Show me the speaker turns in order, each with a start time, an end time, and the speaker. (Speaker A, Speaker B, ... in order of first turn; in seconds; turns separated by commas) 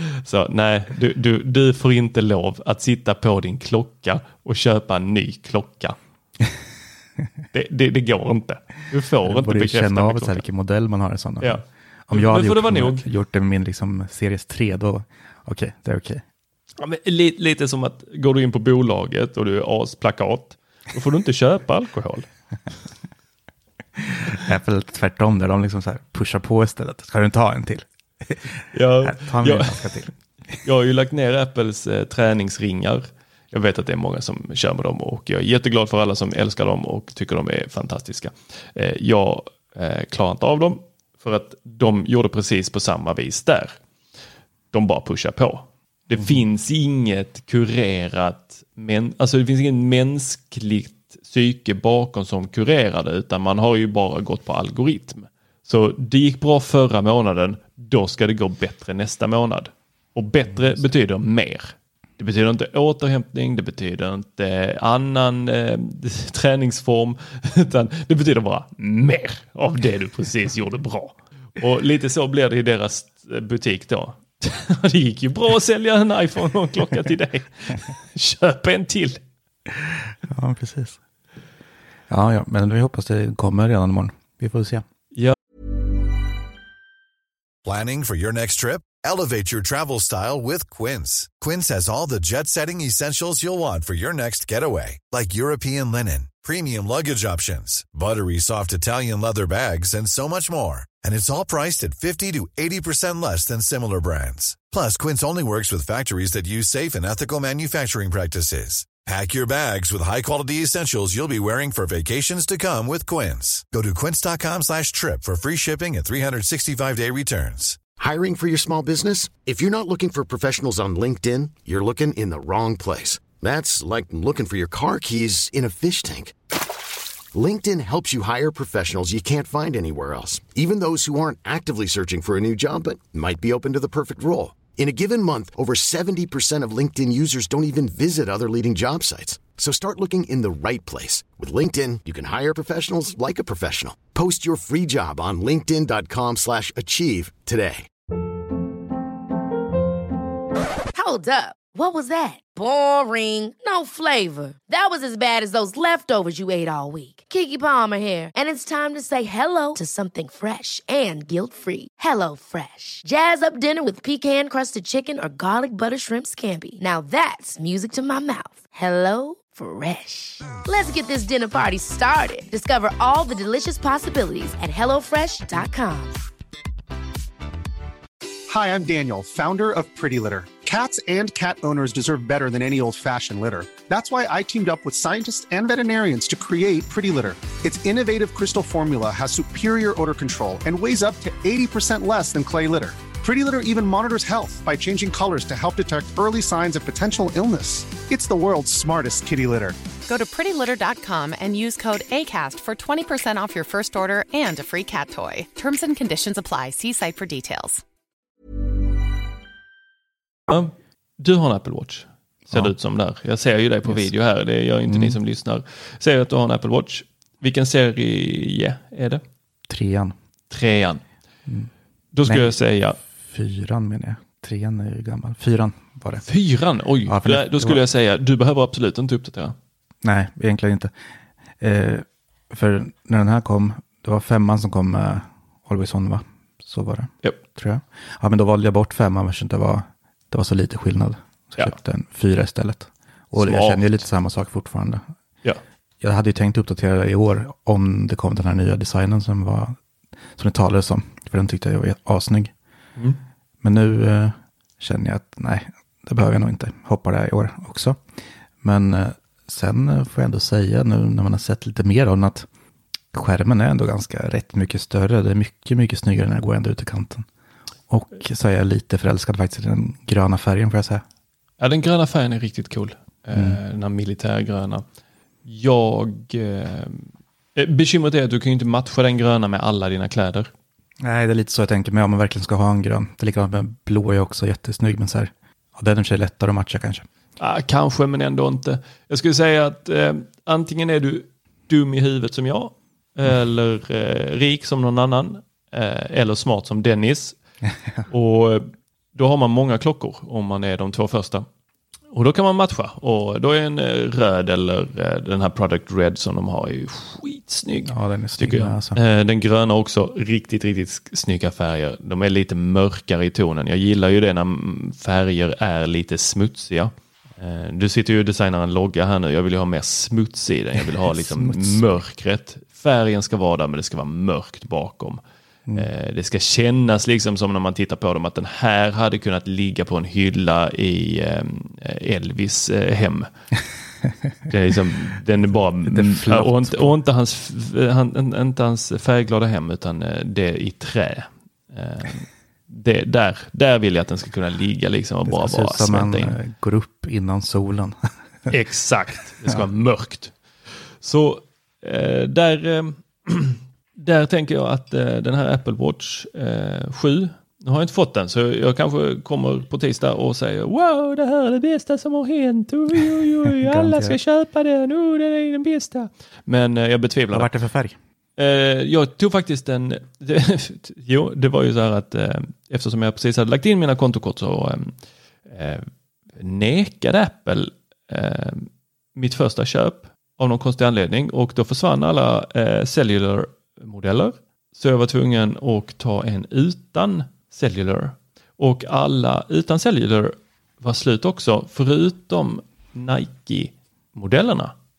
Speaker A: 0.2-6.0, Speaker A: 7.5-10.4, Speaker B: 9.2-16.2, Speaker A: 11.4-13.0, Speaker A: 16.8-22.2, Speaker B: 24.3-30.1, Speaker A: 28.7-30.1, Speaker A: 30.6-43.8, Speaker A: 44.7-79.2, Speaker B: 46.1-46.4, Speaker B: 79.8-81.0, Speaker B: 82.1-84.8, Speaker C: 87.6-117.8, Speaker D: 118.0-126.3, Speaker D: 127.3-147.9, Speaker E: 150.9-176.2, Speaker F: 178.5-199.8, Speaker G: 200.1-207.8, Speaker A: 210.5-219.2, Speaker B: 214.8-215.2, Speaker B: 219.7-220.1, Speaker A: 220.5-221.0, Speaker A: 222.1-223.0, Speaker B: 222.2-222.6, Speaker B: 223.2-226.2, Speaker A: 226.2-229.5, Speaker B: 227.0-227.8, Speaker B: 230.0-230.9, Speaker B: 231.6-245.0, Speaker A: 243.3-244.0, Speaker B: 246.0-249.8, Speaker B: 250.3-252.5, Speaker B: 253.6-258.0, Speaker B: 258.6-262.5, Speaker B: 263.1-267.3, Speaker B: 267.9-271.0, Speaker A: 271.6-274.8, Speaker B: 273.3-273.6, Speaker A: 275.4-280.5, Speaker B: 281.0-287.1, Speaker A: 287.4-297.4, Speaker A: 298.1-301.4, Speaker A: 302.1-325.2, Speaker B: 307.9-309.0, Speaker B: 321.1-321.9, Speaker A: 325.7-333.3, Speaker A: 334.5-346.4, Speaker B: 335.9-336.9, Speaker B: 345.3-348.0, Speaker A: 348.5-350.3, Speaker A: 351.0-367.5, Speaker B: 363.5-364.2, Speaker B: 367.3-368.0, Speaker A: 368.4-374.9, Speaker A: 375.5-375.9, Speaker A: 376.4-394.7